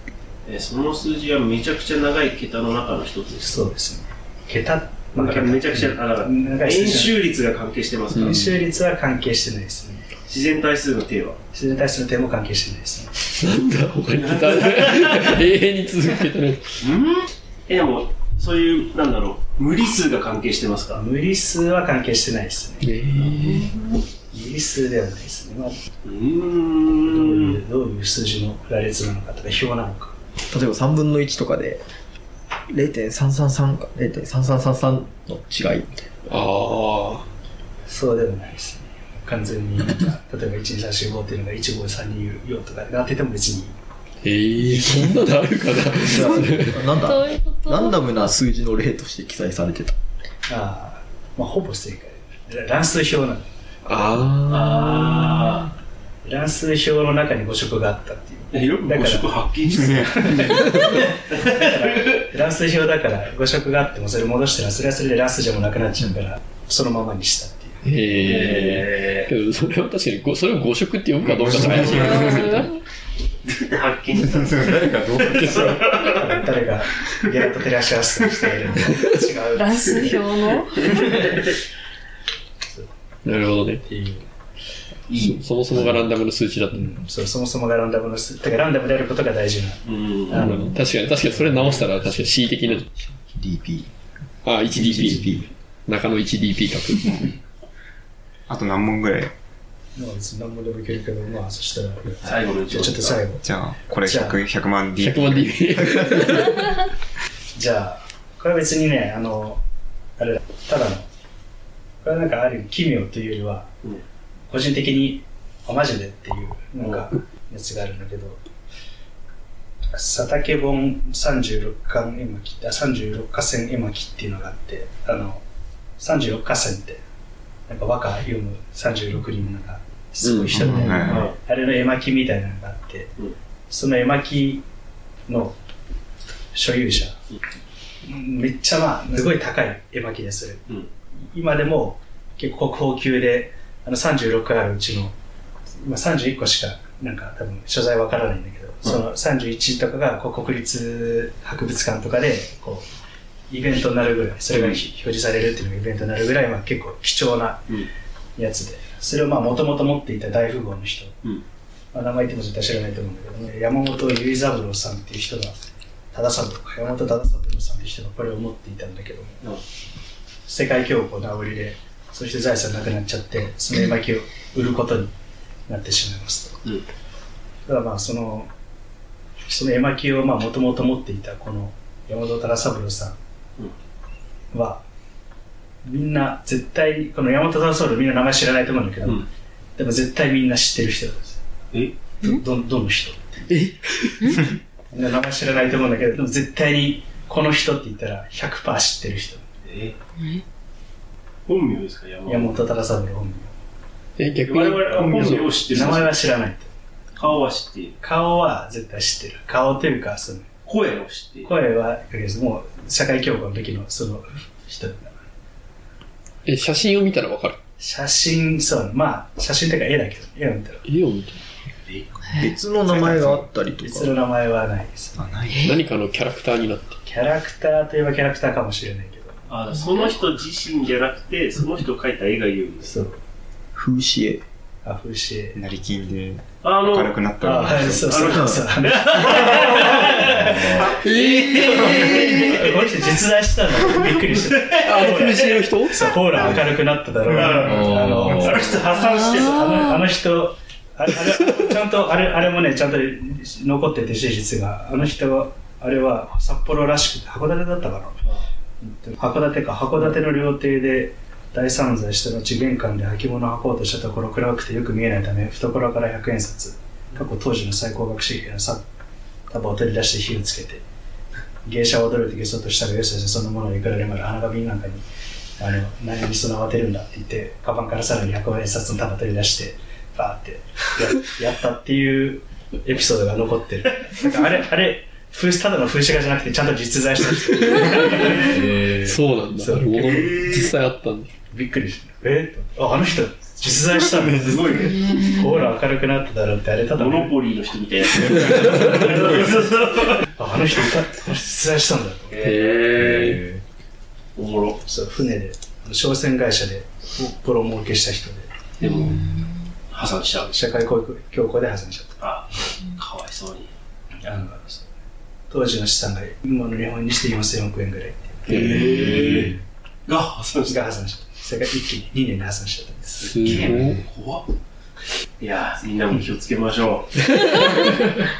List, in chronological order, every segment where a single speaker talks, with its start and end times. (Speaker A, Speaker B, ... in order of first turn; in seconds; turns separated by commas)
Speaker A: 0.5-3.5, Speaker B: 3.4-7.2, Speaker A: 5.1-8.3, Speaker C: 8.2-8.5, Speaker B: 8.2-10.1, Speaker A: 10.3-11.4, Speaker B: 11.5-13.1, Speaker C: 13.2-16.6, Speaker A: 14.3-15.2, Speaker A: 16.8-21.0, Speaker B: 20.9-22.9, Speaker C: 22.8-23.7, Speaker B: 24.3-25.7, Speaker A: 26.0-27.6, Speaker B: 27.1-30.1, Speaker D: 30.5-31.8, Speaker D: 32.7-36.1, Speaker C: 36.3-37.2, Speaker B: 37.9-43.7, Speaker C: 44.2-46.8, Speaker D: 46.0-49.9, Speaker E: 46.9-48.0, Speaker B: 50.5-53.5, Speaker C: 53.9-55.6, Speaker A: 54.5-55.7, Speaker B: 56.2-67.8, Speaker A: 58.5-62.2, Speaker C: 60.5-61.0, Speaker C: 67.8-72.7, Speaker A: 68.3-69.3, Speaker F: 71.2-72.4, Speaker A: 73.5-76.2, Speaker F: 74.2-75.8, Speaker B: 75.4-80.2, Speaker C: 75.4-75.8, Speaker E: 79.5-81.2, Speaker B: 80.8-81.4, Speaker A: 81.1-81.5, Speaker C: 83.2-83.8, Speaker B: 83.8-84.2, Speaker A: 85.1-85.4, Speaker C: 85.2-87.0, Speaker B: 86.7-90.7, Speaker A: 89.8-90.5, Speaker C: 90.3-92.9, Speaker D: 93.1-93.9, Speaker C: 94.4-95.2, Speaker D: 94.7-95.5, Speaker C: 95.9-97.3, Speaker F: 98.5-99.3, Speaker B: 100.0-103.4, Speaker A: 102.2-103.2, Speaker F: 103.4-106.1, Speaker B: 104.0-104.4, Speaker C: 105.0-106.8, Speaker B: 107.5-109.6, Speaker B: 110.2-111.1, Speaker B: 112.0-113.7, Speaker B: 114.5-118.4, Speaker B: 119.9-125.4, Speaker B: 126.0-127.0, Speaker B: 127.7-133.1, Speaker C: 130.2-130.9, Speaker F: 130.6-131.3, Speaker A: 131.1-131.3, Speaker B: 133.7-134.6, Speaker B: 135.3-135.6, Speaker B: 136.5-137.2, Speaker B: 138.0-140.6, Speaker B: 141.3-145.1, Speaker B: 145.8-152.9, Speaker B: 153.5-157.7, Speaker A: 154.5-154.8, Speaker B: 158.3-161.2, Speaker B: 161.9-165.6, Speaker B: 166.1-169.4, Speaker B: 170.4-175.1, Speaker B: 175.7-176.6, Speaker B: 177.7-178.5, Speaker B: 179.5-183.2, Speaker B: 184.5-184.8, Speaker B: 185.8-189.2, Speaker B: 189.8-191.4, Speaker B: 192.2-193.4, Speaker C: 193.5-194.4, Speaker B: 194.9-199.4, Speaker A: 199.6-199.9, Speaker E: 200.2-200.4, Speaker A: 201.5-202.7, Speaker B: 202.3-203.5, Speaker C: 204.2-205.5, Speaker A: 204.5-206.2, Speaker B: 205.6-206.7, Speaker A: 207.2-208.0, Speaker B: 208.0-210.5, Speaker A: 210.6-211.5, Speaker B: 211.4-215.2, Speaker C: 216.4-217.6, Speaker B: 217.8-220.8, Speaker C: 220.8-221.4, Speaker A: 221.9-222.1, Speaker D: 222.3-224.1, Speaker B: 222.9-225.2, Speaker F: 225.2-225.7, Speaker C: 225.6-227.0, Speaker B: 227.1-229.4, Speaker A: 229.5-232.9, Speaker B: 232.8-233.2, Speaker D: 233.7-234.4, Speaker B: 234.8-235.6, Speaker F: 235.5-238.3, Speaker A: 236.6-237.3, Speaker B: 237.4-240.7, Speaker A: 238.1-242.7, Speaker D: 238.3-238.6, Speaker C: 240.7-242.7, Speaker B: 242.0-245.3, Speaker C: 244.8-246.1, Speaker B: 245.9-258.2, Speaker A: 247.3-249.8, Speaker B: 258.8-268.8, Speaker B: 269.5-270.8, Speaker B: 271.6-275.0, Speaker B: 275.6-289.9, Speaker A: 287.9-288.5, Speaker C: 288.4-291.3, Speaker A: 289.9-290.7, Speaker B: 291.5-297.3, Speaker A: 294.3-295.2, Speaker A: 296.9-300.2, Speaker B: 300.4-302.4, Speaker A: 302.3-303.4, Speaker C: 302.4-303.6, Speaker A: 304.4-304.8, Speaker B: 304.9-308.5, Speaker A: 308.8-309.3, Speaker A: 309.9-310.6, Speaker B: 310.5-312.2, Speaker A: 312.2-313.7, Speaker B: 314.2-314.8, Speaker B: 315.5-319.5, Speaker A: 318.5-320.8, Speaker C: 318.5-319.2, Speaker B: 320.6-323.4, Speaker C: 323.2-324.0, Speaker A: 323.4-324.4, Speaker A: 325.4-327.9